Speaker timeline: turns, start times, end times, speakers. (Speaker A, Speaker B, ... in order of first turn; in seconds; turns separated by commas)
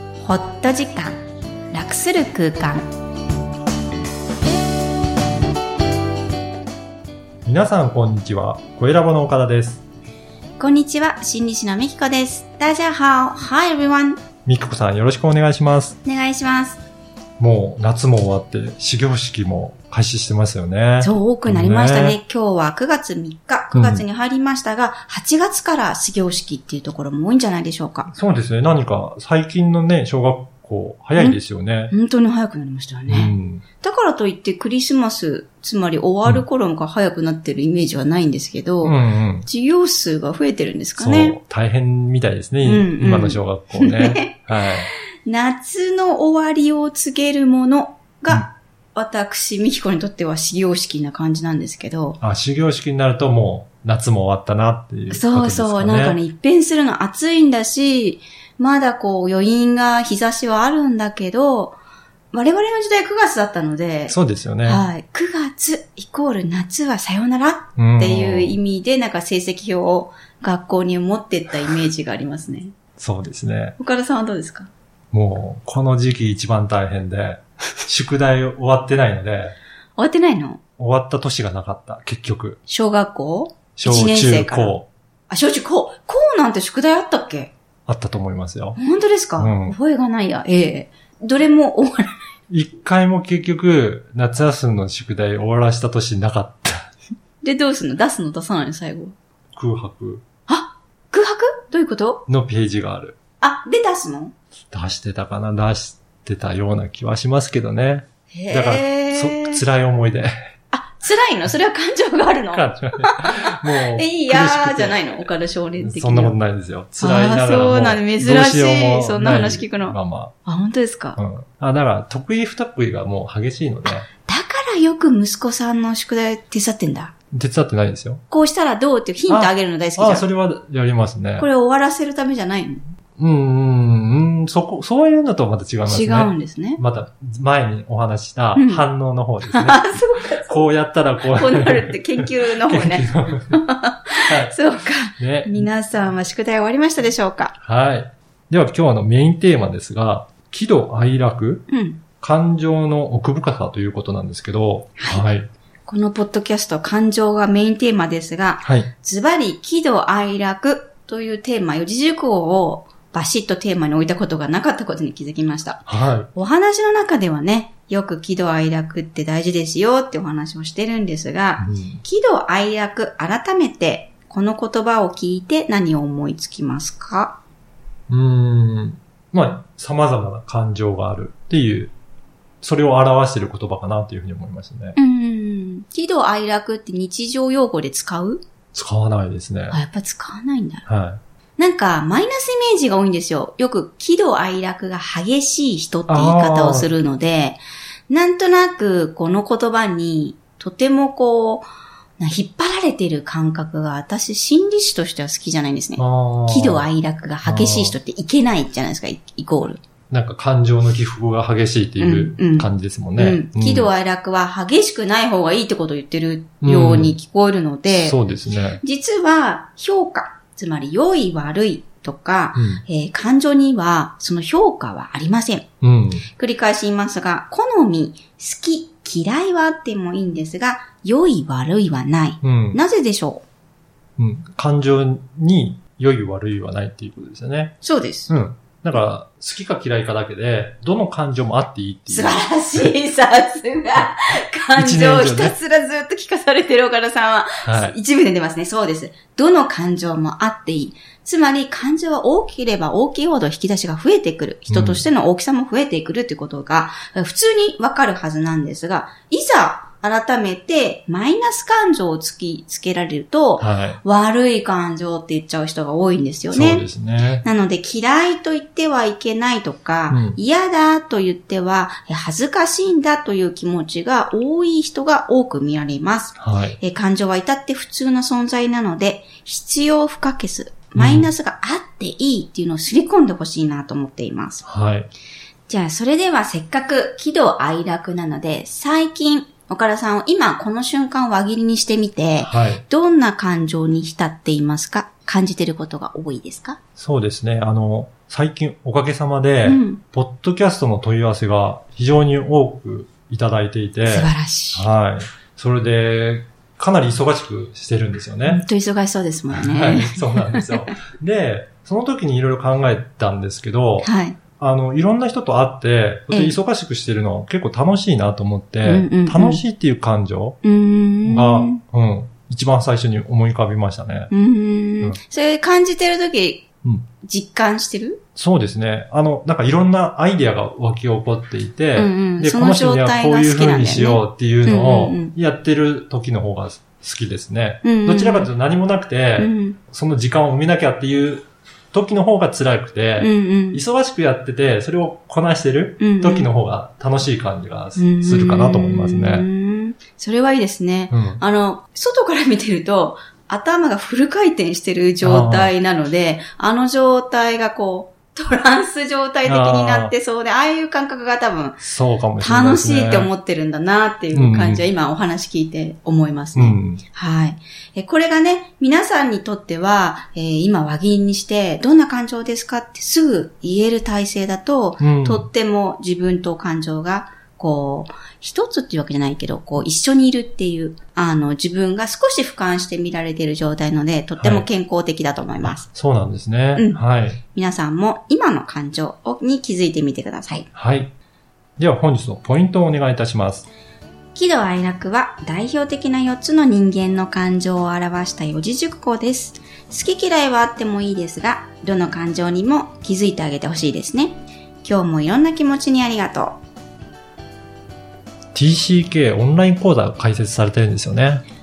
Speaker A: 0.2-1.2, Speaker A: 1.7-2.9, Speaker B: 7.4-9.8, Speaker A: 10.6-14.2, Speaker B: 14.4-16.0, Speaker A: 16.0-16.8, Speaker B: 17.4-22.2, Speaker A: 21.0-28.1, Speaker B: 23.7-24.0, Speaker B: 28.1-31.9, Speaker A: 31.9-41.4, Speaker B: 33.1-33.6, Speaker B: 38.8-39.5, Speaker B: 41.0-44.9, Speaker A: 42.6-44.4, Speaker A: 45.2-52.2, Speaker B: 52.2-56.2, Speaker A: 55.1-61.8, Speaker A: 62.3-72.7, Speaker B: 64.1-64.9, Speaker B: 67.8-68.6, Speaker B: 73.0-73.8, Speaker A: 73.8-74.7, Speaker B: 75.1-79.5, Speaker A: 80.0-80.6, Speaker B: 80.8-82.6, Speaker A: 82.7-84.8, Speaker B: 83.8-84.9, Speaker A: 85.3-87.5, Speaker B: 87.9-88.8, Speaker A: 88.8-92.1, Speaker B: 89.4-89.8, Speaker B: 92.5-96.9, Speaker A: 97.4-99.1, Speaker B: 99.5-100.2, Speaker A: 100.5-102.2, Speaker B: 102.3-103.2, Speaker A: 103.4-104.3, Speaker B: 104.7-110.3, Speaker A: 108.3-109.6, Speaker A: 110.7-116.3, Speaker B: 112.5-115.2, Speaker B: 115.8-120.3, Speaker A: 117.0-121.2, Speaker B: 121.2-124.1, Speaker A: 124.2-127.1, Speaker B: 127.3-128.2, Speaker A: 128.3-130.2, Speaker B: 129.3-131.5, Speaker A: 131.4-132.8, Speaker B: 133.2-143.6, Speaker A: 135.9-136.8, Speaker A: 138.5-138.8, Speaker A: 139.5-140.7, Speaker A: 141.3-147.5, Speaker B: 144.3-144.6, Speaker B: 145.2-145.7, Speaker B: 147.6-151.7, Speaker A: 151.7-152.0, Speaker B: 152.2-155.5, Speaker A: 155.0-155.3, Speaker A: 155.8-177.4, Speaker B: 158.6-158.9, Speaker B: 165.9-166.3, Speaker B: 171.6-172.0, Speaker B: 178.1-181.9, Speaker B: 182.6-184.9, Speaker A: 184.9-188.4, Speaker B: 188.7-189.8, Speaker A: 189.7-190.8, Speaker B: 190.9-191.2, Speaker A: 191.6-201.7, Speaker B: 196.1-196.9, Speaker A: 202.2-209.8, Speaker B: 206.0-206.9, Speaker B: 207.4-207.9, Speaker B: 210.1-213.9, Speaker A: 212.0-218.2, Speaker B: 216.6-217.1, Speaker B: 217.9-218.8, Speaker A: 218.8-225.7, Speaker B: 222.5-222.8, Speaker B: 225.8-226.2, Speaker A: 226.3-233.4, Speaker B: 232.4-232.8, Speaker B: 234.2-237.8, Speaker A: 237.8-238.3, Speaker B: 238.3-242.4, Speaker A: 242.1-266.8, Speaker B: 244.7-245.5, Speaker B: 247.6-247.9, Speaker B: 254.7-255.0, Speaker B: 263.6-264.0, Speaker B: 266.5-267.4, Speaker A: 267.4-284.6, Speaker B: 270.1-270.4, Speaker B: 276.4-276.8, Speaker B: 280.9-281.3, Speaker B: 284.6-285.1, Speaker A: 285.7-296.8, Speaker B: 292.4-292.8, Speaker B: 297.0-308.6, Speaker A: 299.6-300.0, Speaker A: 304.0-304.9, Speaker A: 308.4-310.8, Speaker B: 309.5-320.6, Speaker A: 314.0-314.4, Speaker A: 316.3-316.6, Speaker A: 318.8-319.6, Speaker A: 320.6-321.8, Speaker B: 321.2-324.3, Speaker A: 324.3-326.7, Speaker A: 327.2-328.2, Speaker B: 328.4-349.4, Speaker A: 331.9-335.3, Speaker A: 337.8-338.5, Speaker A: 339.4-339.8, Speaker A: 343.2-343.8, Speaker A: 346.0-346.5, Speaker A: 347.9-361.8, Speaker B: 351.1-351.4, Speaker B: 355.2-355.7, Speaker B: 359.4-360.1, Speaker B: 361.8-363.3, Speaker A: 362.4-385.9, Speaker B: 364.3-364.8, Speaker B: 366.6-367.0, Speaker B: 375.0-375.4, Speaker B: 384.4-384.6, Speaker B: 385.6-387.4, Speaker A: 386.7-390.7, Speaker B: 390.7-391.1, Speaker B: 391.8-393.7, Speaker A: 394.3-406.6, Speaker B: 408.5-411.4